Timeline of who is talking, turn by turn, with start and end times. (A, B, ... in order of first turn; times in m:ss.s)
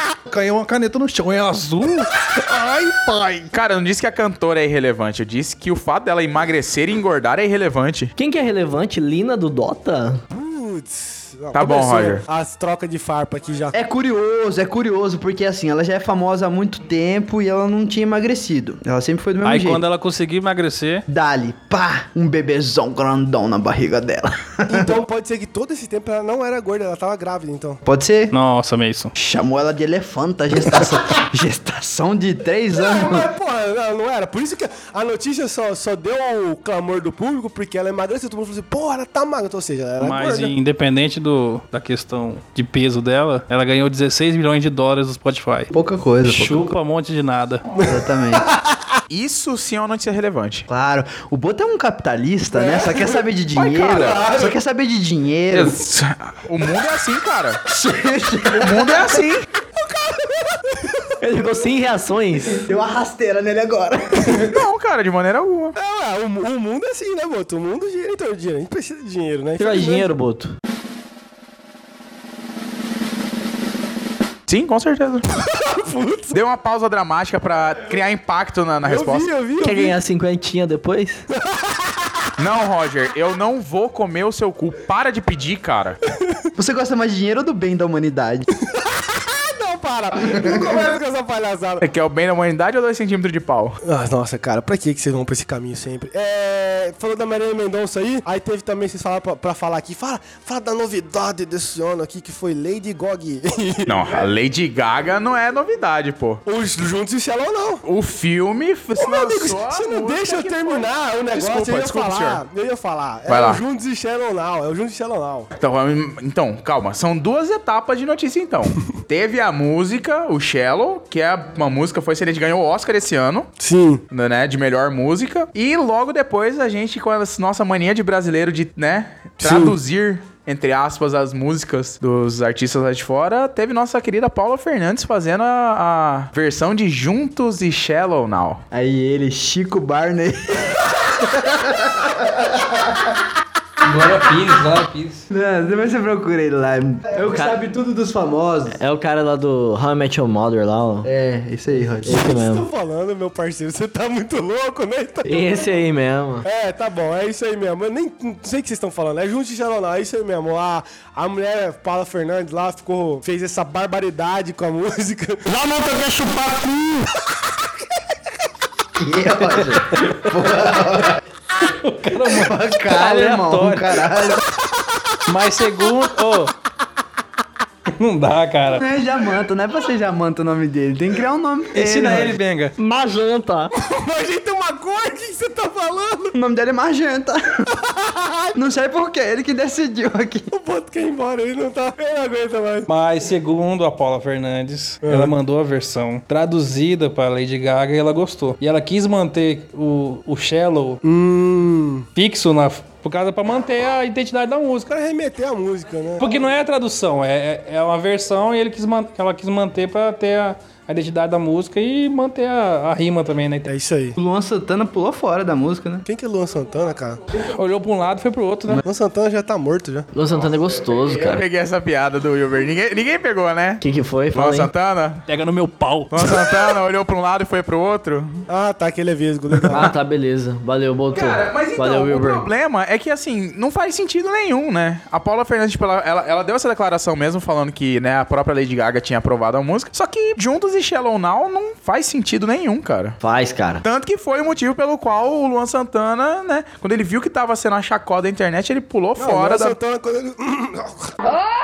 0:00.3-0:03.5 A
0:03.5-0:08.1 B
0:08.2-0:10.2 C
0:10.3-0:13.7 D
0:11.5-0:12.2 B
0:13.7-0:19.8 E
0:19.4-0:21.0 A
0:21.1-0:25.0 E
0:24.7-0:27.8 D
0:27.8-0:28.3 E
0:28.3-0:29.1 A
0:29.2-0:33.3 E
0:30.6-0:31.0 D
0:32.7-0:40.5 D
0:40.0-0:45.7 A
0:45.7-0:46.7 E
0:46.2-0:47.6 A
0:47.8-0:48.8 D
0:47.8-0:48.5 E
0:49.1-0:50.7 B
0:50.7-0:55.8 E
0:52.5-0:53.2 D
0:53.6-0:54.2 B
0:54.0-0:54.5 D
0:55.5-0:57.6 B
0:57.7-0:59.2 E
0:58.5-0:59.5 B
0:59.8-1:01.2 D
1:01.2-1:02.6 C
1:02.4-1:04.5 E
1:04.4-1:05.8 B
1:05.8-1:10.1 D
1:09.6-1:10.5 C
1:14.5-1:15.2 B
1:15.5-1:16.4 D
1:16.3-1:19.3 B
1:18.8-1:20.0 D
1:19.6-1:21.2 C
1:21.3-1:22.2 D
1:22.4-1:26.0 B
1:26.6-1:28.5 E
1:28.6-1:31.8 D
1:30.4-1:30.8 E
1:31.8-1:33.8 B
1:33.8-1:44.2 D
1:43.9-1:46.4 B
1:46.5-1:47.8 D
1:47.8-1:52.4 B
1:49.0-1:55.5 D
1:53.3-1:53.6 B
1:55.6-2:03.5 B
2:03.6-2:04.0 D
2:04.1-2:18.6 B
2:09.4-2:09.8 D
2:18.7-2:23.1 E
2:23.8-2:25.3 A
2:25.3-2:28.8 E
2:28.7-2:31.1 C
2:31.0-2:32.3 E
2:32.0-2:32.7 C
2:32.1-2:35.7 D
2:35.3-2:36.4 C
2:36.4-2:47.1 D
2:49.0-2:51.2 E
2:49.9-2:50.5 A
2:51.6-2:54.2 A
2:52.2-2:54.4 E
2:55.3-2:56.5 A
2:58.0-2:58.8 A
2:58.7-3:02.4 E
3:01.7-3:02.7 A
3:02.8-3:03.7 C
3:03.8-3:06.4 D
3:06.3-3:07.4 E
3:07.7-3:08.6 D
3:08.6-3:10.5 E
3:10.5-3:12.9 D
3:12.9-3:21.0 A
3:15.0-3:15.4 D
3:21.0-3:22.1 D
3:22.2-3:24.9 A
3:24.9-3:26.3 D
3:26.2-3:33.7 A
3:33.7-3:34.2 D
3:34.2-3:36.0 E
3:36.1-3:37.3 D
3:37.4-3:38.8 A
3:38.8-3:40.1 D
3:40.1-3:41.4 C
3:41.2-3:43.8 B
3:43.8-3:44.7 C
3:44.3-3:45.2 B
3:45.3-3:46.3 A
3:46.1-3:48.4 B
3:48.5-3:49.9 D
3:49.7-3:52.5 C
3:51.1-4:03.2 B
4:03.2-4:03.8 C
4:03.8-4:09.8 B
4:09.2-4:11.1 D